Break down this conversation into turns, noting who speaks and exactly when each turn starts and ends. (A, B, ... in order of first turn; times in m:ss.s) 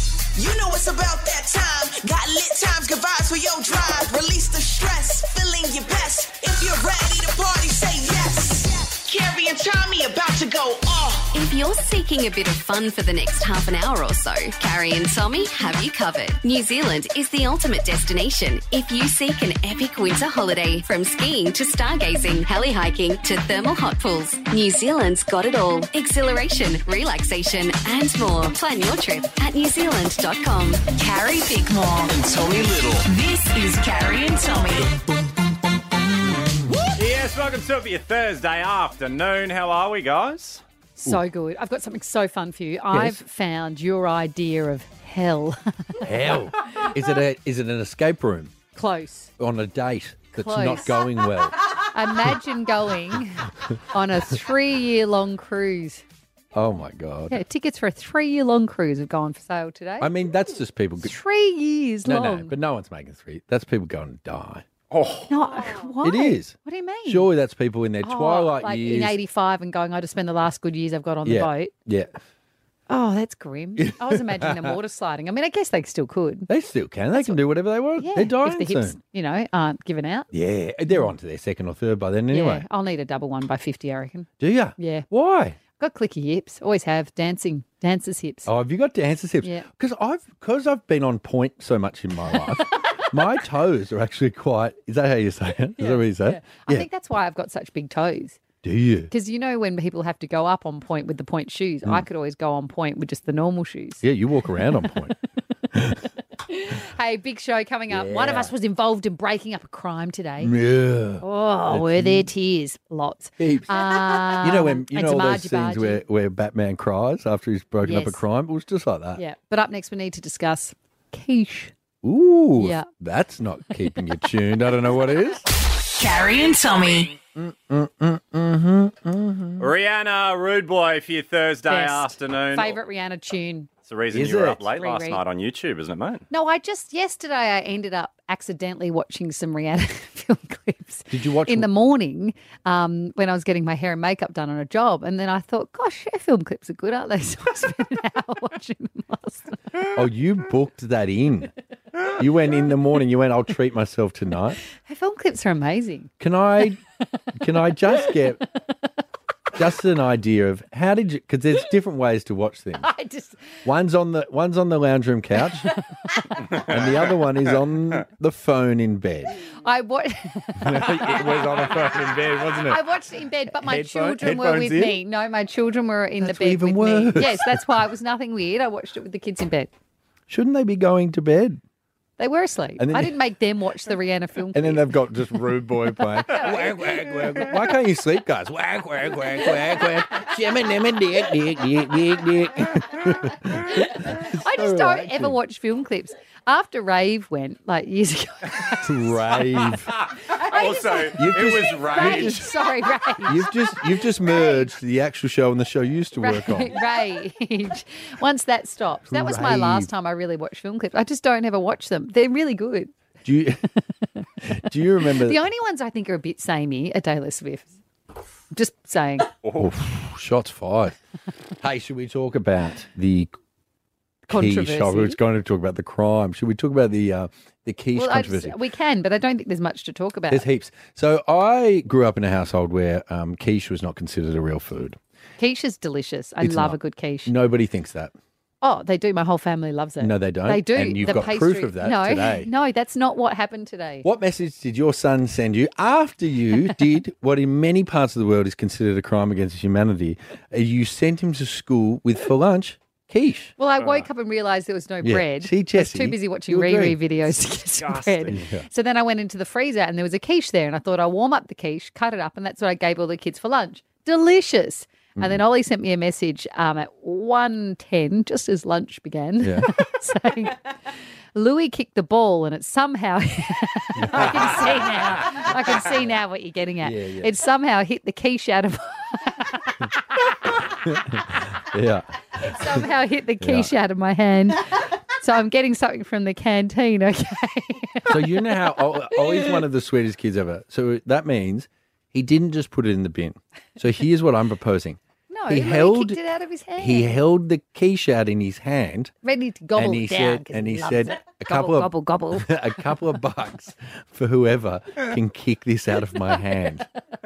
0:00.4-0:11.3 A
0:11.3-0:30.9 B
0:30.9-0:32.3 C
0:32.2-0:33.0 D
0:33.0-0:34.9 C
0:36.4-0:36.7 E
0:36.9-0:40.6 D
0:41.0-0:46.0 F
0:42.9-0:43.2 E
0:46.0-0:48.5 E
0:48.7-0:49.3 F
0:49.4-0:51.5 E
0:50.3-0:51.1 F
0:51.9-0:56.0 F
0:56.5-0:57.4 E
0:57.3-1:00.1 F
1:00.0-1:01.1 E
1:01.0-1:02.5 F
1:02.0-1:04.6 E
1:04.9-1:05.3 D
1:05.3-1:07.3 F
1:06.0-1:06.5 E
1:07.1-1:09.2 E
1:08.0-1:11.7 F
1:11.2-1:12.1 E
1:12.9-1:16.5 F
1:13.8-1:14.8 E
1:16.5-1:19.0 E
1:17.1-1:17.4 F
1:18.0-1:20.3 F
1:20.3-1:22.6 E
1:22.3-1:25.0 F
1:24.4-1:25.6 E
1:25.8-1:28.5 F
1:28.4-1:36.9 E
1:35.8-1:38.4 F
1:38.6-1:39.1 E
1:39.1-1:44.0 F
1:44.0-1:45.1 E
1:45.7-1:46.0 E
1:46.4-1:50.5 F
1:47.9-1:48.5 E
1:50.4-1:52.3 E
1:51.2-1:56.0 F
1:53.4-1:59.2 E
1:57.8-1:58.2 F
1:59.2-2:01.7 F
2:02.0-2:05.4 E
2:02.6-2:02.9 F
2:06.0-2:07.1 C
2:07.3-2:09.7 E
2:09.6-2:12.8 D
2:11.7-2:13.7 F
2:13.9-2:16.2 D
2:14.1-2:14.6 E
2:14.7-2:15.2 F
2:16.3-2:29.5 F
2:21.1-2:21.7 E
2:29.9-2:31.5 E
2:32.1-2:34.6 E
2:34.8-2:36.1 F
2:36.2-2:36.8 E
2:37.3-2:38.4 E
2:39.6-2:42.9 E
2:42.8-2:43.4 F
2:43.6-2:45.7 E
2:45.7-2:46.4 F
2:46.7-2:49.4 E
2:49.4-2:52.0 F
2:50.6-2:52.8 E
2:51.6-2:52.3 D
2:52.7-2:59.7 F
2:53.6-2:54.9 E
2:56.2-2:57.6 E
3:00.3-3:01.6 E
3:02.2-3:04.8 F
3:02.8-3:03.1 E
3:04.5-3:15.4 E
3:06.2-3:06.5 F
3:14.2-3:19.3 F
3:18.8-3:19.9 E
3:20.4-3:24.6 F
3:20.5-3:22.4 D
3:21.2-3:22.4 E
3:23.2-3:26.7 E
3:26.2-3:32.9 F
3:29.1-3:29.9 E
3:33.2-3:33.6 E
3:34.4-3:35.4 E
3:35.2-3:37.8 F
3:38.5-3:39.3 F
3:39.4-3:39.7 D
3:39.6-3:41.0 E
3:41.6-3:43.3 E
3:44.3-3:48.5 E
3:44.3-3:45.2 F
3:47.9-3:50.4 F
3:50.3-3:55.0 E
3:55.4-3:57.3 F
3:56.4-3:58.1 E
3:58.6-4:04.1 F
4:00.0-4:02.5 E
4:04.0-4:13.5 E
4:13.6-4:30.6 F
4:13.8-4:14.1 D
4:15.0-4:17.0 E
4:17.8-4:18.3 D
4:18.3-4:18.6 E
4:25.2-4:25.4 E
4:29.4-4:29.7 E
4:31.3-4:39.9 F
4:34.0-4:35.4 E
4:36.8-4:37.3 E
4:40.7-4:42.8 E
4:42.4-4:48.5 F
4:43.4-4:43.7 E
4:48.1-4:56.2 E
4:55.3-4:57.2 F
4:56.8-4:59.1 E
4:59.2-5:02.5 F
4:59.7-5:06.8 E